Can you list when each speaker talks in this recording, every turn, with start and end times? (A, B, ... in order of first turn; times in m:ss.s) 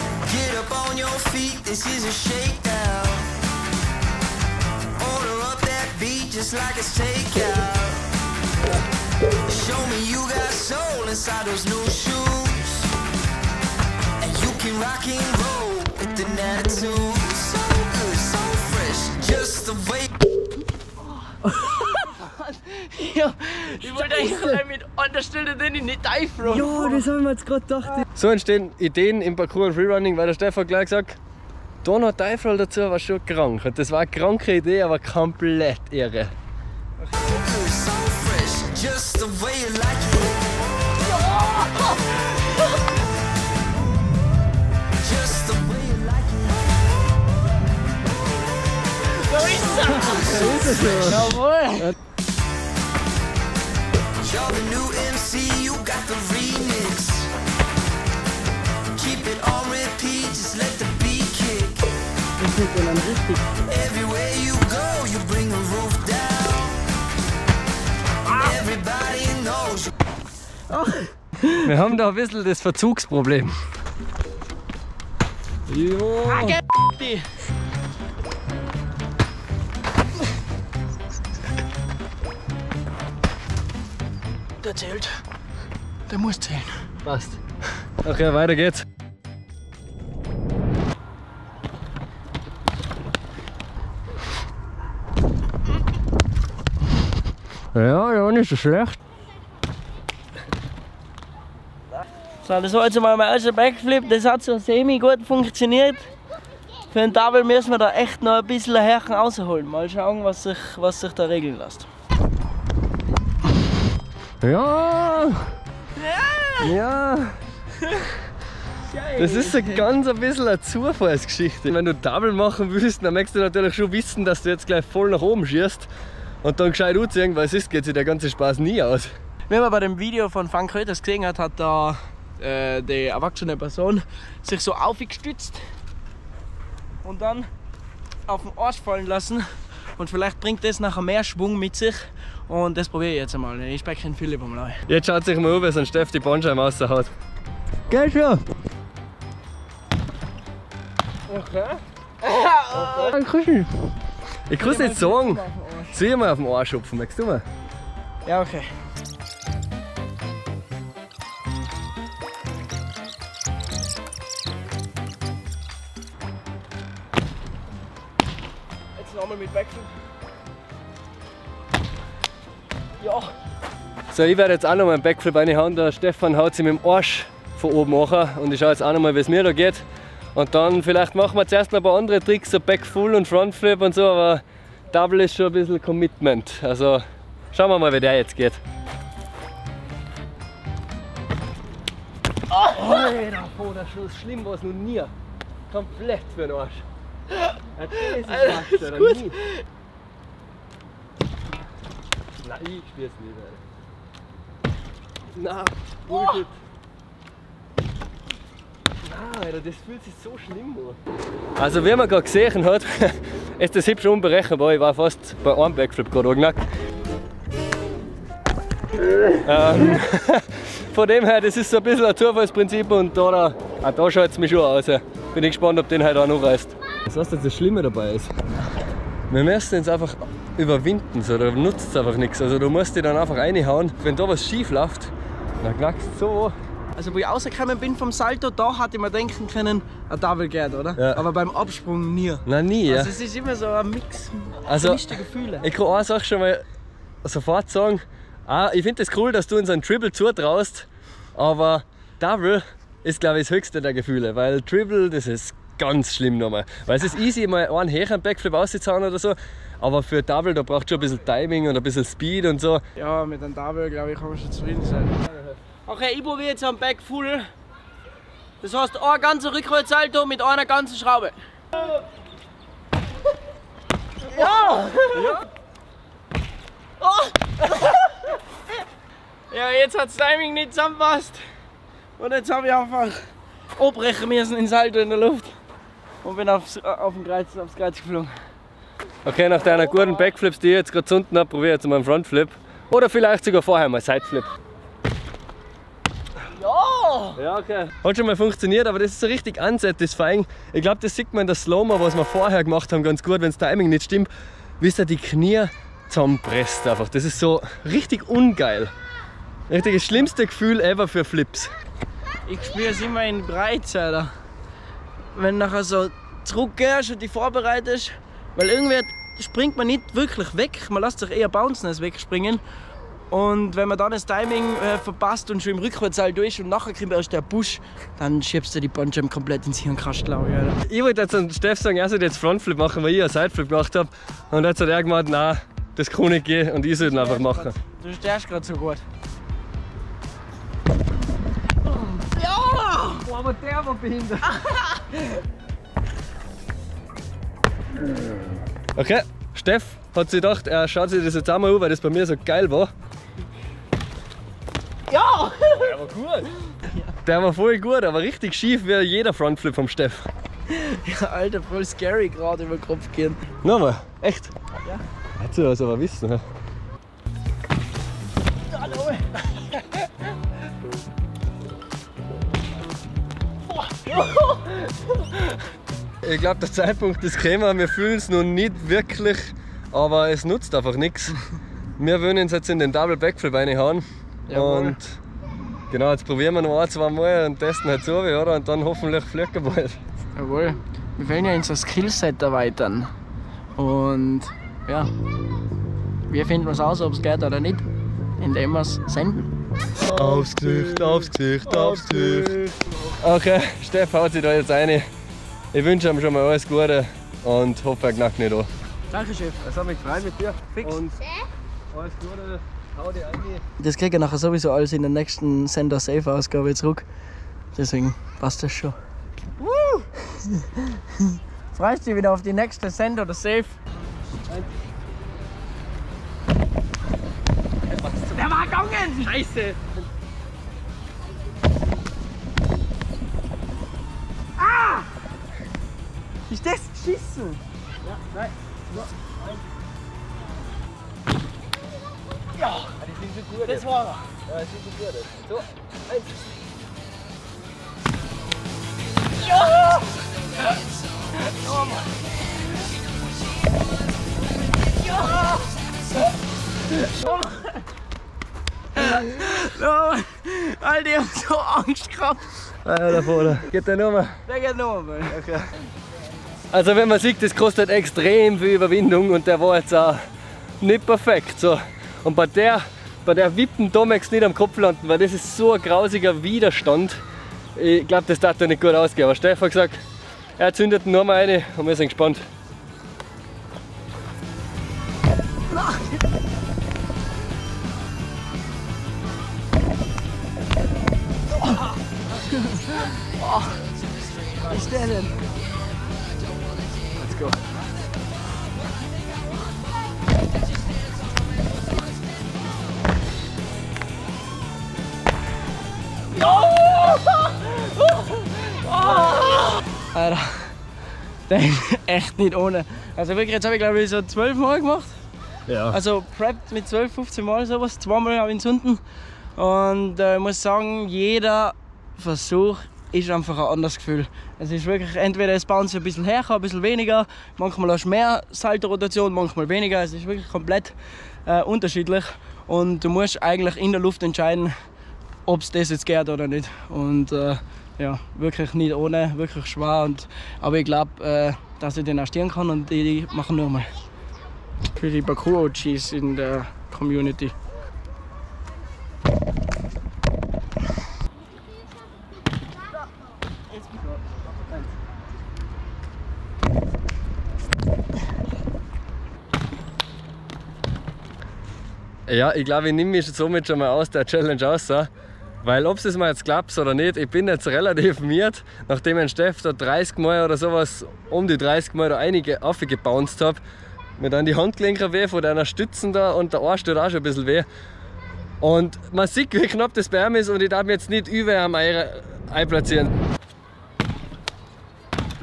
0:00.2-0:03.4 A
0:05.0-0:08.1 A
0:09.4-0:12.9 A
0:14.2-0:20.1 A
0:21.3-0:27.1 B
0:23.8-0:24.6 C
0:26.4-0:31.2 C
0:31.8-0:36.3 C
0:37.0-0:37.6 B
0:37.4-0:40.5 A
0:40.9-0:42.8 B
0:45.0-0:46.8 A
0:49.0-0:51.9 B
0:50.0-0:51.9 C
0:54.2-0:57.3 A
0:58.9-1:01.9 A
1:02.4-1:03.6 B
1:03.6-1:06.8 A
1:08.3-1:09.9 A
1:08.3-1:08.6 B
1:10.7-1:11.7 B
1:11.6-1:13.5 C
1:15.7-1:16.6 C
1:16.2-1:17.3 B
1:24.6-1:25.1 B
1:26.1-1:26.8 B
1:27.0-1:27.4 C
1:28.0-1:28.8 C
1:37.7-1:39.0 C
1:42.4-1:46.1 B
1:46.9-1:51.9 B
1:54.4-1:55.5 C
1:56.0-1:56.7 B
1:56.6-1:57.4 C
1:58.8-1:59.8 B
1:59.2-2:05.9 C
2:06.4-2:09.1 C
2:09.5-2:15.6 B
2:17.0-2:17.5 B
2:18.3-2:19.4 B
2:20.0-2:24.8 B
2:24.9-2:27.1 C
2:27.9-2:28.4 C
2:31.3-2:31.8 C
2:32.2-2:33.2 B
2:32.7-2:33.9 C
2:34.5-2:37.4 C
2:34.6-2:36.0 B
2:38.2-2:38.7 B
2:49.0-2:49.9 B
2:53.0-2:53.3 B
2:54.1-2:59.8 C
3:00.3-3:07.0 C
3:07.5-3:08.6 C
3:12.5-3:15.1 C
3:15.7-3:16.8 C
3:17.8-3:19.4 C
3:17.9-3:19.6 B
3:22.4-3:23.6 C
3:25.3-3:26.5 C
3:26.1-3:26.4 B
3:29.0-3:31.0 C
3:31.6-3:36.6 C
3:39.4-3:48.3 C
3:49.3-3:56.5 C
3:57.0-4:05.7 B
4:01.0-4:01.2 C
4:02.4-4:03.1 C
4:04.7-4:06.6 C
4:07.2-4:22.8 C
4:22.9-4:25.2 B
4:25.8-4:27.5 B
4:28.6-4:31.9 B
4:34.2-4:35.4 B
4:35.1-4:35.4 C
4:37.0-4:38.4 B
4:39.5-4:41.4 B
4:42.2-4:43.2 B
4:43.8-4:45.5 B
4:46.2-4:48.3 B
4:49.2-4:54.5 C
4:49.6-4:50.2 B
4:56.5-4:57.4 B
4:57.4-5:04.3 C
5:04.8-5:08.9 C
5:09.7-5:11.7 C
5:12.4-5:14.3 B
5:15.3-5:22.6 B
5:23.3-5:30.8 B
5:30.8-5:37.7 C
5:37.0-5:39.0 B
5:41.9-5:43.3 B
5:43.2-5:44.6 C
5:44.6-5:45.2 B
5:48.9-5:52.9 C
5:55.1-5:55.9 B
5:55.8-5:56.5 C
5:56.8-5:57.1 B
5:57.2-6:00.3 C
6:00.7-6:03.4 B
6:03.6-6:04.5 C
6:05.4-6:06.4 C
6:08.7-6:10.1 B
6:13.8-6:15.4 B
6:16.2-6:21.4 C
6:22.0-6:25.2 C
6:24.5-6:25.0 B
6:25.9-6:30.0 C
6:30.4-6:33.1 B
6:33.8-6:35.1 B
6:36.3-6:37.8 B
6:38.4-6:39.5 B
6:40.0-6:42.6 C
6:41.7-6:42.9 B
6:43.2-6:45.0 C
6:45.7-6:48.7 C
6:49.1-6:49.6 B
6:49.6-6:51.2 C
6:51.9-6:53.6 C
6:53.8-6:57.0 B
6:57.7-6:59.0 B
6:59.6-7:00.0 C
7:00.2-7:03.8 B
7:07.9-7:08.6 C
7:08.3-7:09.3 B
7:09.2-7:10.0 C
7:14.6-7:15.1 B
7:16.5-7:17.6 B
7:18.0-7:19.6 C
7:22.6-7:23.9 C
7:23.6-7:24.3 B
7:24.4-7:26.4 C
7:29.5-7:30.1 B
7:31.4-7:32.1 B
7:35.0-7:35.8 B
7:36.9-7:37.8 B
7:38.9-7:42.6 B
7:42.8-7:44.4 C
7:44.4-7:45.4 B
7:45.3-7:45.6 C
7:46.7-7:50.2 C
7:50.8-7:57.2 C
7:57.7-8:00.0 C
8:00.6-8:02.4 C
8:11.6-8:13.8 B
8:14.6-8:15.4 B
8:17.2-8:17.6 B
8:26.3-8:30.8 B
8:31.5-8:35.2 B
8:35.7-8:36.0 C
8:35.9-8:39.0 B
8:39.6-8:50.9 B
8:51.4-8:54.7 B
8:55.4-9:03.9 B
9:04.9-9:07.5 B
9:22.3-9:25.1 C
9:25.6-9:33.6 C
9:34.2-9:37.6 C
9:38.6-9:43.1 C